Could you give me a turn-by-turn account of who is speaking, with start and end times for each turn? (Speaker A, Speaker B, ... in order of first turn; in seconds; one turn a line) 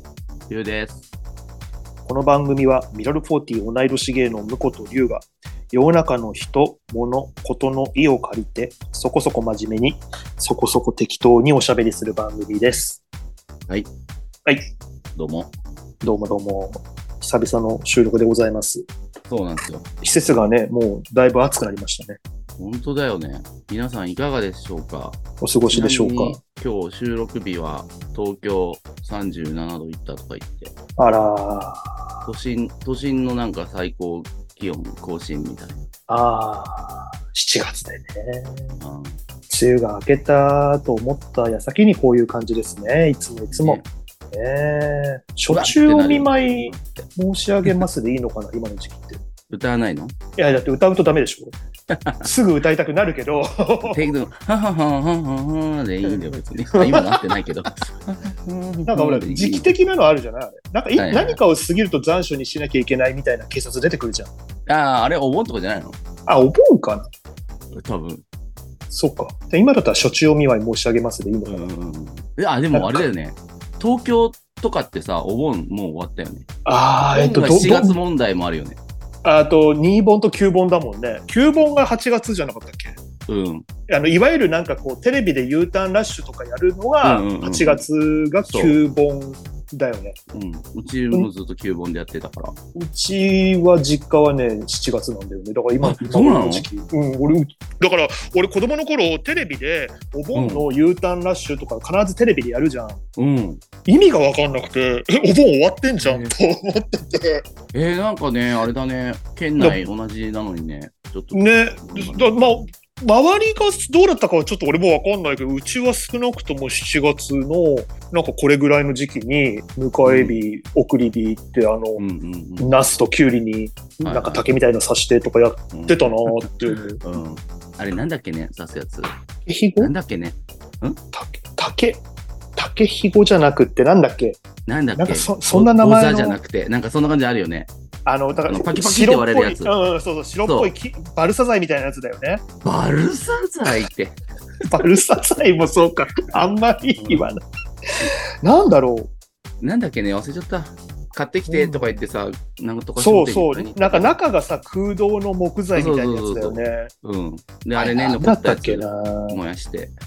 Speaker A: 0.5-1.0
Speaker B: 2.0-13.0
Speaker A: 15.2-15.5
Speaker B: 16.0-18.9
Speaker A: 19.3-19.9
Speaker B: 20.0-22.2
Speaker A: 22.6-25.2
Speaker B: 25.4-26.4
Speaker A: 25.7-30.7
Speaker B: 31.0-32.0
Speaker A: 32.3-35.9
Speaker B: 36.1-38.8
Speaker A: 38.8-39.2
Speaker B: 39.5-49.2
Speaker A: 43.5-43.9
Speaker A: 45.5-47.0
Speaker A: 49.5-50.1
Speaker B: 50.4-51.5
Speaker A: 51.9-52.3
Speaker B: 52.2-54.1
Speaker A: 53.9-59.7
Speaker B: 56.7-57.4
Speaker B: 58.9-64.3
Speaker A: 61.0-61.4
Speaker A: 64.7-66.0
Speaker B: 66.3-67.1
Speaker A: 67.7-68.2
Speaker B: 68.9-71.7
Speaker A: 71.5-76.5
Speaker B: 72.7-73.1
Speaker B: 76.7-78.0
Speaker A: 77.2-78.8
Speaker B: 79.2-83.0
Speaker A: 83.3-83.7
Speaker B: 83.9-90.2
Speaker A: 87.0-87.8
Speaker A: 88.5-88.8
Speaker A: 90.3-92.6
Speaker B: 92.8-103.0
Speaker A: 95.8-96.7
Speaker A: 100.3-100.7
Speaker A: 103.2-103.6
Speaker B: 103.8-107.5
Speaker A: 106.0-106.3
Speaker A: 107.7-112.3
Speaker B: 111.3-122.0
Speaker A: 120.0-120.4
Speaker A: 122.0-122.7
Speaker B: 122.6-127.0
Speaker A: 124.0-124.5
Speaker A: 125.7-126.5
Speaker A: 127.0-129.1
Speaker B: 129.5-129.9
Speaker A: 129.8-131.0
Speaker B: 131.1-132.0
Speaker B: 132.6-134.4
Speaker A: 134.7-137.7
Speaker B: 135.0-136.4
Speaker B: 138.1-142.4
Speaker A: 138.4-139.7
Speaker A: 140.4-140.7
Speaker A: 142.6-144.9
Speaker B: 144.7-149.1
Speaker A: 147.0-147.3
Speaker A: 149.6-154.2
Speaker B: 151.5-152.0
Speaker B: 153.0-156.9
Speaker A: 155.7-159.9
Speaker B: 157.8-159.4